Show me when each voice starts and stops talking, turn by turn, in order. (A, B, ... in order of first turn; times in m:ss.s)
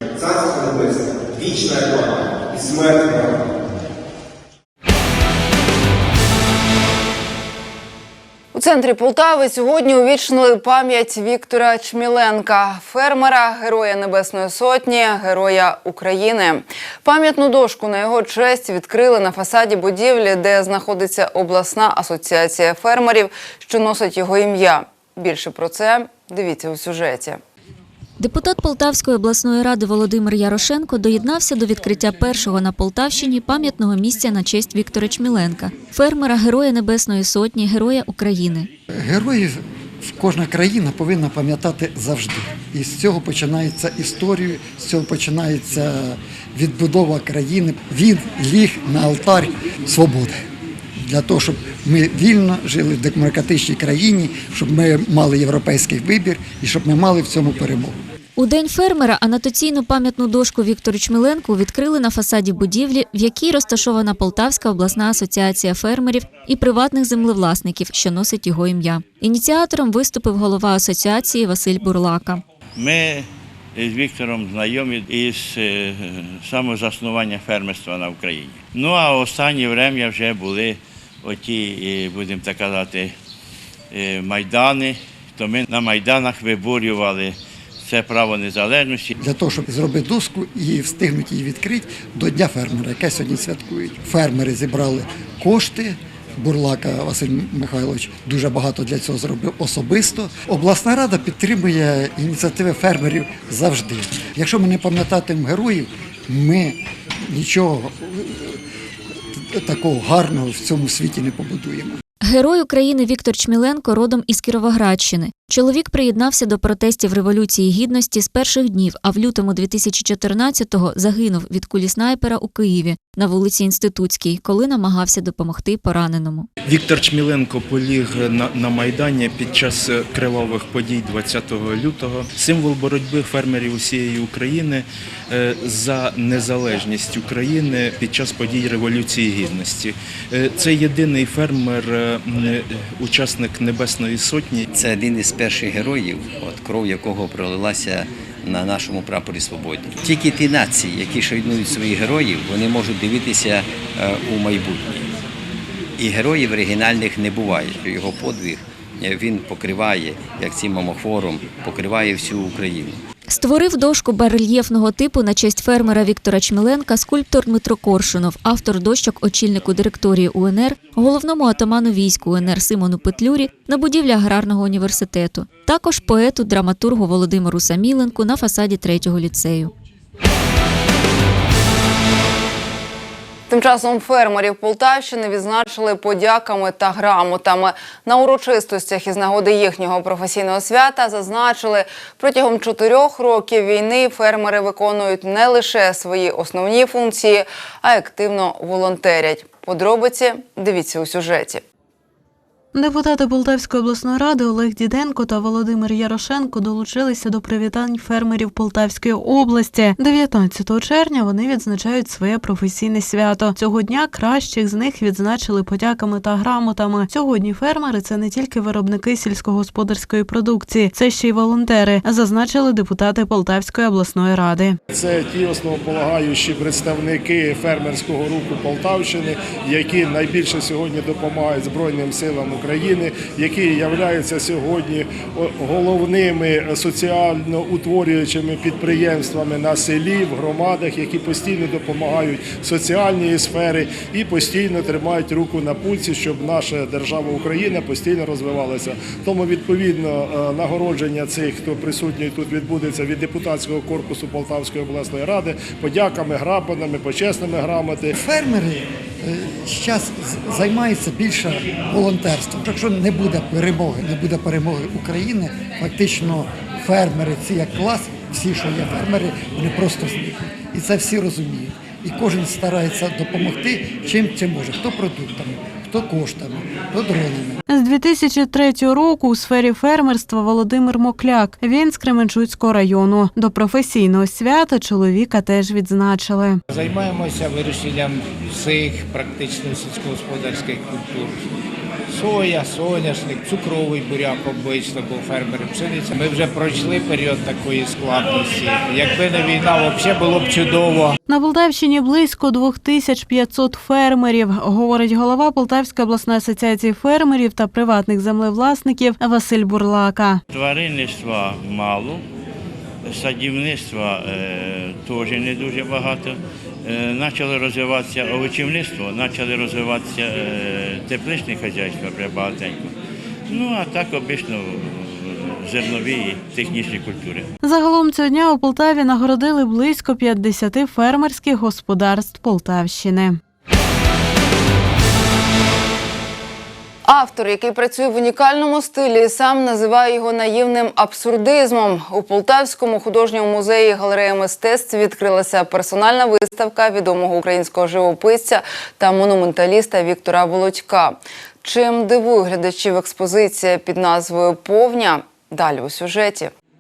0:08.5-0:27.4 A
0:28.2-0:38.7 B
0:39.0-0:50.3 C
0:51.0-0:58.0 C
0:58.4-1:12.4 B
1:12.8-1:23.1 D
1:23.9-1:29.1 D
1:29.2-1:46.8 C
1:47.3-1:48.6 C
1:49.4-1:52.0 C
1:52.3-2:06.5 B
2:06.6-2:24.7 E
2:24.8-2:35.1 F
2:36.0-2:42.9 F
2:43.4-2:59.7 B
3:03.5-3:21.6 A
3:22.7-3:44.8 G
3:44.9-4:18.1 H
4:18.1-4:37.6 C
4:37.7-4:46.6 G
4:46.7-4:51.4 I
4:52.1-5:01.2 I
5:01.2-5:10.4 G
5:10.5-5:12.2 D
5:13.0-5:22.9 D
5:23.5-5:27.5 D
5:27.6-5:33.4 G
5:37.0-5:56.5 A